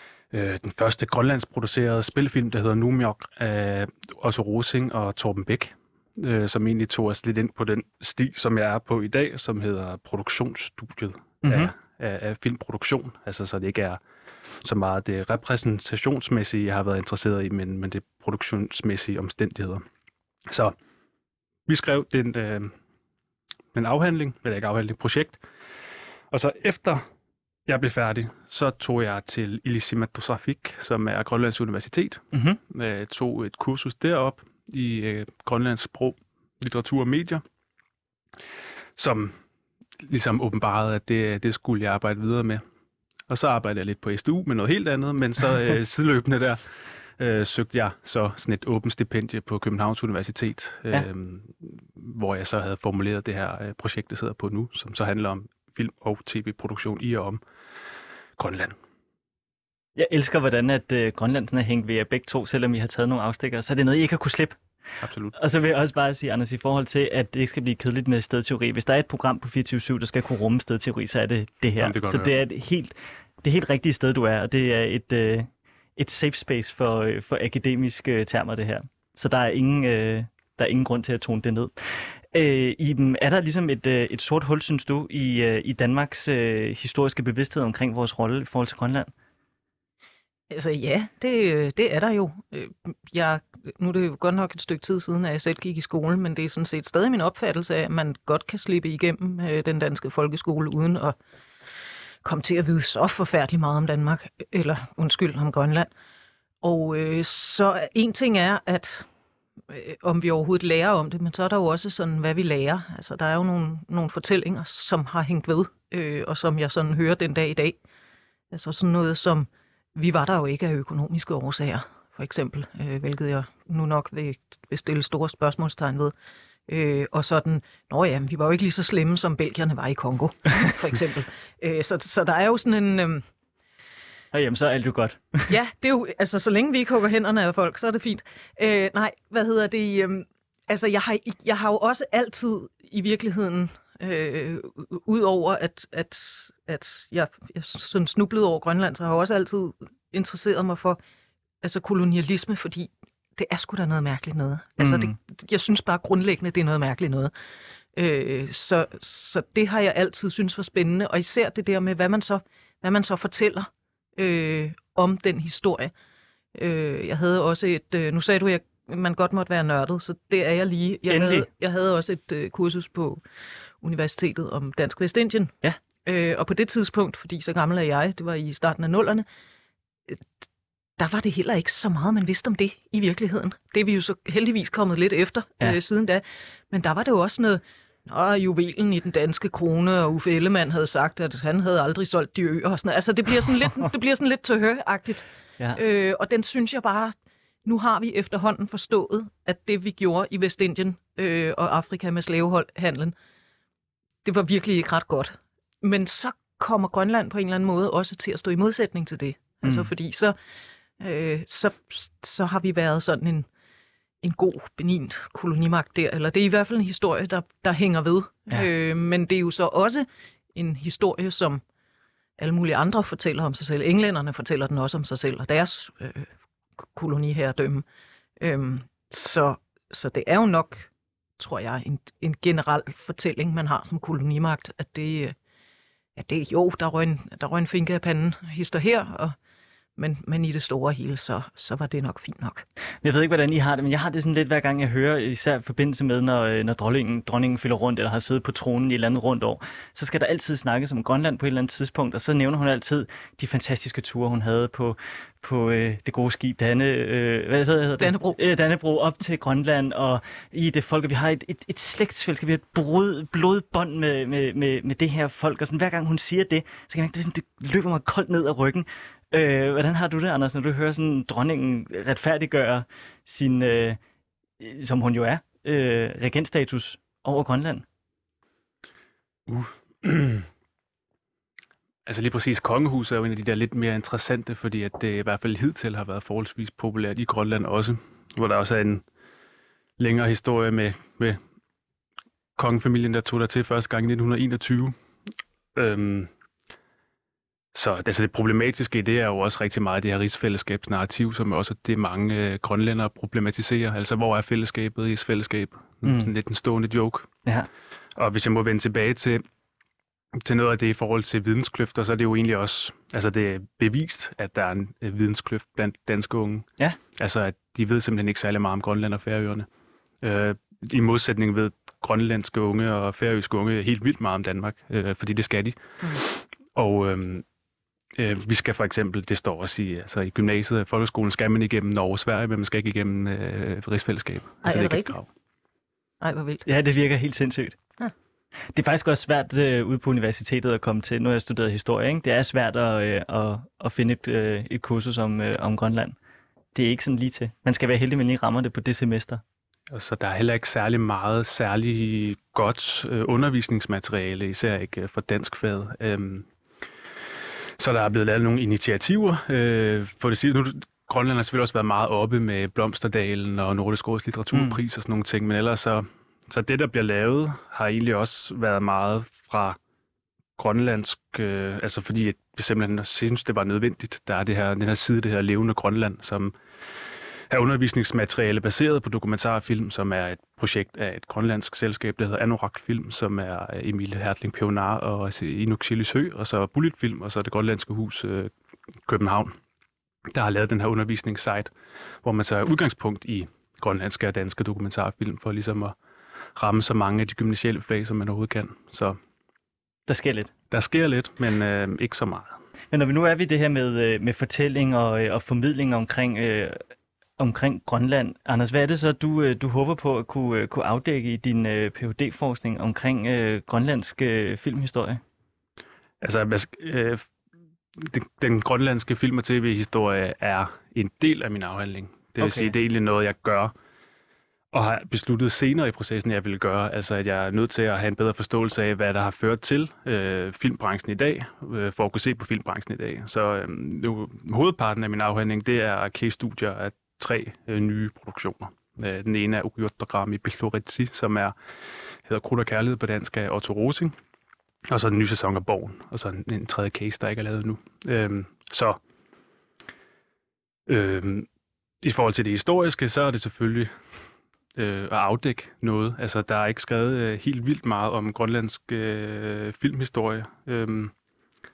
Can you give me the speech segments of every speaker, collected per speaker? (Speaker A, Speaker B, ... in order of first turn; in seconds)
Speaker A: 0.3-14.0, 14.6-19.8, 20.5-20.7, 21.7-22.7, 23.7-25.4, 26.3-27.0, 27.7-37.4, 39.0-39.3, 40.0-42.6, 43.3-46.6, 47.2-57.4, 58.4-58.8, 65.0-65.3, 71.8-72.3, 279.5-280.5, 282.1-289.0, 290.0-291.4, 292.6-294.9, 295.7-296.3, 297.7-307.3, 308.1-309.4, 310.4-319.7, 320.2-327.4, 328.1-335.3, 349.9-356.5, 357.8-369.8, 370.6-376.5, 377.5-388.5, 389.1-389.6, 390.3-391.7, 392.2-395.9, 396.6-399.2, 400.7-402.6, 416.2-417.3, 417.9-423.7, 424.7-441.5, 442.2-444.1, 444.9-449.0, 450.9-451.5, 452.0-453.9, 454.8-461.1
Speaker B: 11.4-11.7, 32.3-32.6, 60.0-64.6, 65.3-89.1, 134.3-135.5, 154.8-155.1, 171.1-171.5, 209.6-209.9, 243.0-274.0, 274.6-277.9, 306.0-306.3, 336.6-337.8, 338.7-346.1, 346.7-349.4, 364.5-364.8, 400.1-400.5, 402.9-406.8, 407.4-415.2, 422.4-422.7
Speaker C: 90.5-101.1, 102.2-105.9, 106.6-109.1, 109.7-117.8, 118.5-126.1, 126.7-133.2, 135.5-151.0, 151.6-157.3, 157.9-165.9, 166.5-173.2, 173.8-179.2, 181.0-203.1, 204.2-210.3, 211.0-213.5, 214.2-221.6, 222.4-226.3, 226.9-227.8, 228.4-235.3, 236.2-239.3, 239.9-242.6, 258.0-258.4, 334.6-335.1, 336.2-336.6